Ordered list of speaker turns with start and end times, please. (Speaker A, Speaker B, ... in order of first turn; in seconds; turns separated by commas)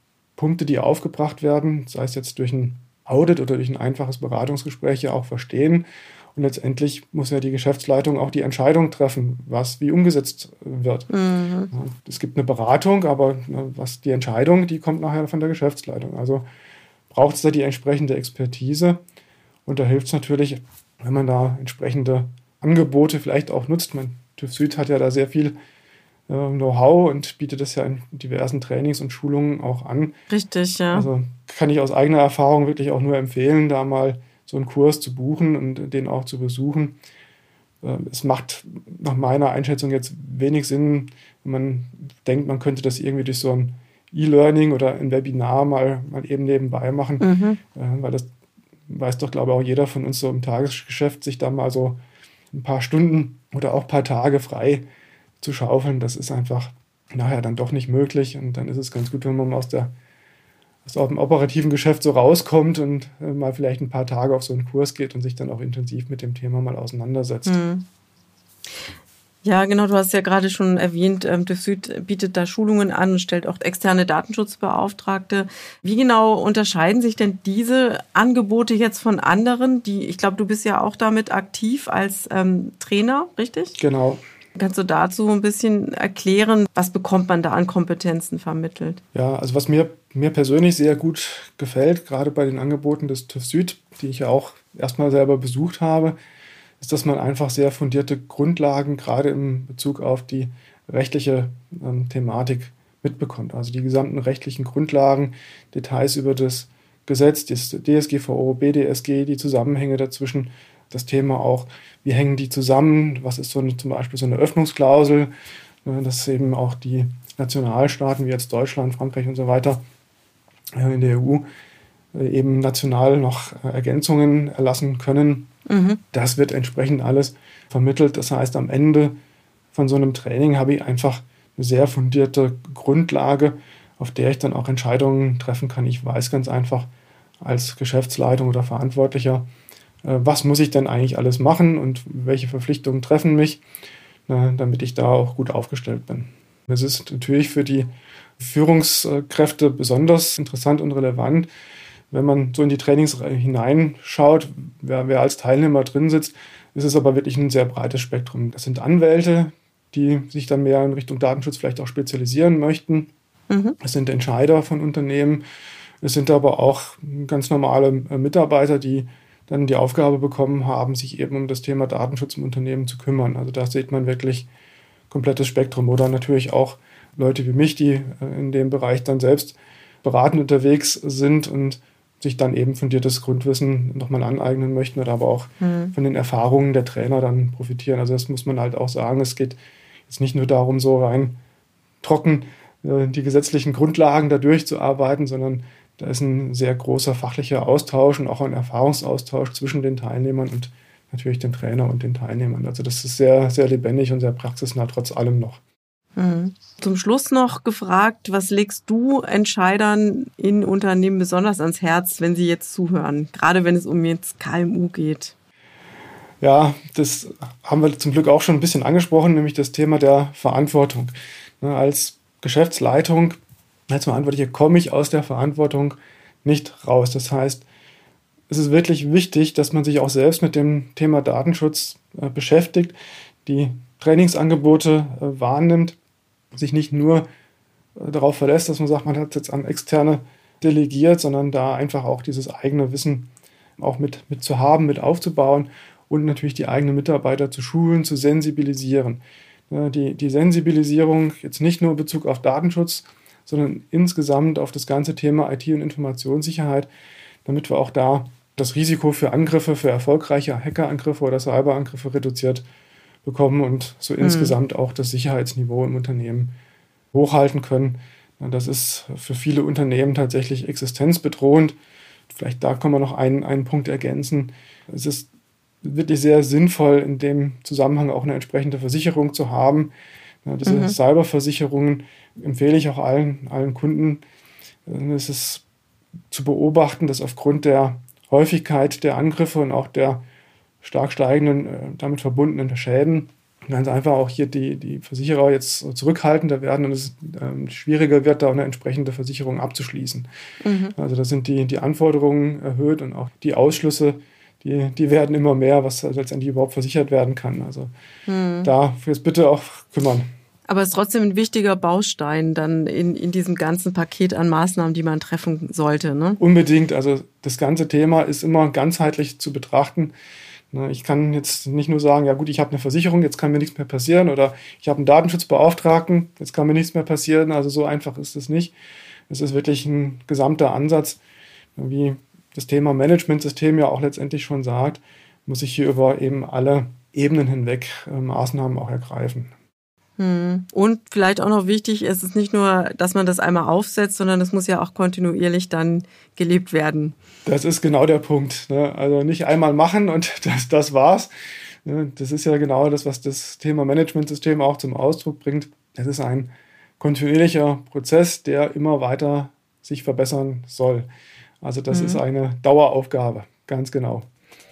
Speaker A: 0.4-11.1, Speaker B: 11.1-11.7, Speaker A: 11.7-16.4, Speaker A: 17.1-19.0, Speaker A: 19.7-25.6, Speaker A: 26.3-30.2, Speaker B: 30.3-31.1, Speaker A: 30.9-37.0, Speaker A: 37.8-48.3, Speaker B: 47.2-47.6, Speaker A: 48.9-52.0, Speaker A: 52.5-54.9, Speaker A: 55.4-59.9, Speaker A: 60.9-67.6, Speaker B: 67.5-67.8, Speaker B: 69.4-83.8, Speaker A: 83.8-84.2, Speaker B: 84.6-89.0, Speaker A: 89.1-96.2, Speaker A: 96.8-115.3, Speaker A: 115.8-119.8, Speaker A: 120.8-121.5, Speaker A: 122.1-125.5, Speaker B: 125.7-126.0, Speaker A: 126.1-129.2, Speaker A: 129.7-136.9, Speaker A: 137.4-139.5, Speaker A: 140.0-143.6, Speaker A: 144.3-151.5, Speaker A: 152.1-163.1, Speaker B: 163.5-163.8, Speaker A: 163.8-165.4, Speaker A: 166.0-174.5, Speaker A: 175.1-191.4, Speaker B: 185.6-185.9, Speaker A: 192.0-205.6, Speaker B: 206.2-215.3, Speaker A: 216.4-223.4, Speaker A: 223.9-227.7, Speaker A: 228.5-236.0, Speaker A: 236.5-237.3, Speaker A: 238.0-256.9, Speaker A: 257.4-262.6, Speaker A: 263.2-266.5, Speaker B: 264.2-264.6, Speaker A: 267.1-271.8, Speaker A: 272.3-275.3, Speaker A: 275.8-279.9, Speaker A: 280.4-284.2, Speaker B: 280.7-281.0, Speaker A: 284.9-285.6, Speaker A: 286.3-290.2, Speaker A: 290.8-300.3, Speaker B: 300.6-300.9, Speaker A: 300.9-307.9, Speaker B: 308.3-308.7, Speaker A: 308.6-310.3, Speaker B: 310.7-316.4, Speaker A: 316.4-320.1, Speaker A: 320.7-328.8, Speaker A: 329.3-331.2, Speaker A: 331.8-339.5, Speaker B: 340.2-347.1, Speaker A: 347.5-351.3, Speaker A: 351.9-361.1, Speaker A: 361.6-364.3, Speaker B: 361.9-362.2